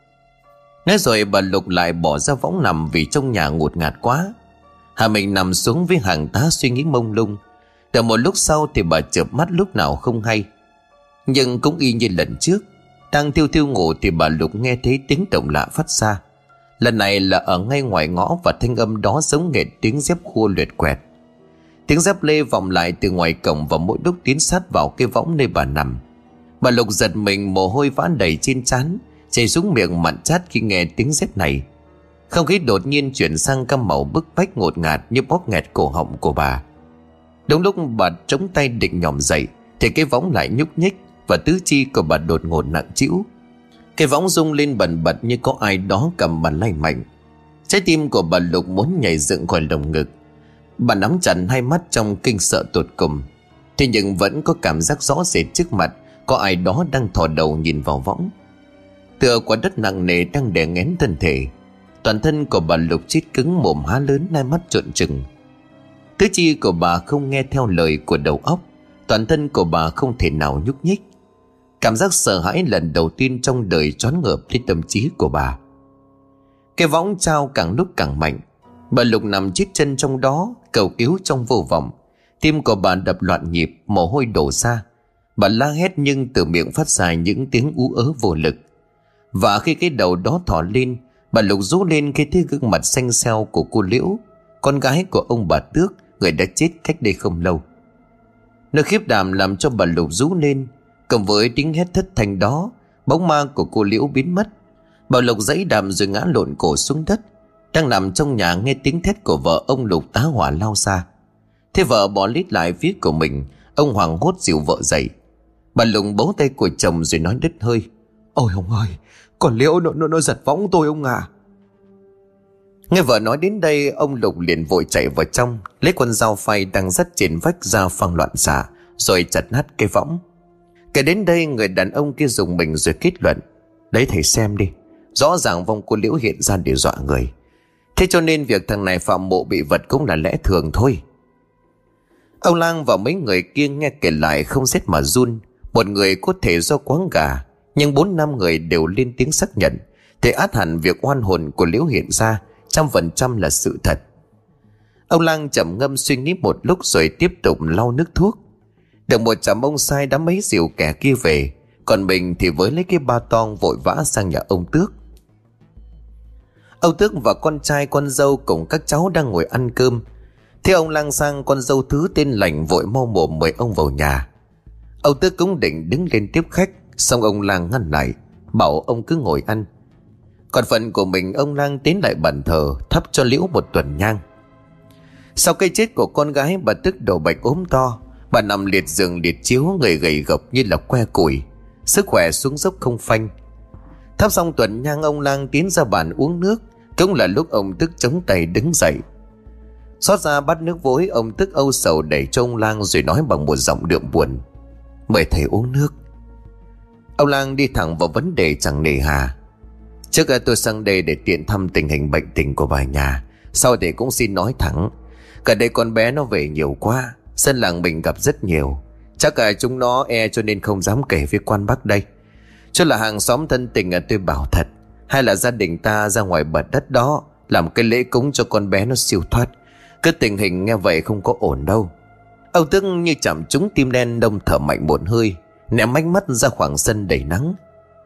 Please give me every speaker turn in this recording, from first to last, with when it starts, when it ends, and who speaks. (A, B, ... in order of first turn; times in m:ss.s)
0:00.8-0:04.3 A
0:05.0-0:07.4 A
0:07.9-0:10.5 A
0:11.3-0:16.2 A
0:16.8-0:21.0 A
0:21.9-0:26.0 A
0:26.6-0:31.6 A
0:32.3-0:36.6 A
0:37.5-0:43.2 A
0:44.0-0:47.0 A
0:47.7-0:50.1 A
0:50.8-0:53.2 A
0:53.8-0:58.3 A
0:59.2-1:01.5 A
1:02.0-1:05.2 A
1:06.2-1:11.0 A
1:11.8-1:15.6 A
1:16.8-1:18.4 A
1:18.9-1:24.8 A
1:25.4-1:28.6 A
1:29.3-1:37.6 A
1:38.7-1:44.5 A
1:45.1-1:51.0 A
1:51.7-1:55.1 A
1:55.7-2:01.3 A
2:02.9-2:10.2 A
2:10.9-2:13.4 A
2:13.9-2:17.3 A
2:18.0-2:21.0 A
2:22.4-2:34.0 A
2:35.1-2:38.4 A
2:39.1-2:44.9 A
2:46.8-2:50.0 A
2:50.6-2:54.3 A
2:55.0-2:59.7 A
3:00.5-3:04.2 A
3:05.4-3:13.3 A
3:14.2-3:19.0 A
3:20.0-3:24.4 A
3:25.1-3:25.9 A
3:27.2-3:29.3 A
3:30.1-3:34.9 A
3:35.4-3:42.0 A
3:42.7-3:51.9 A
3:52.5-3:57.6 A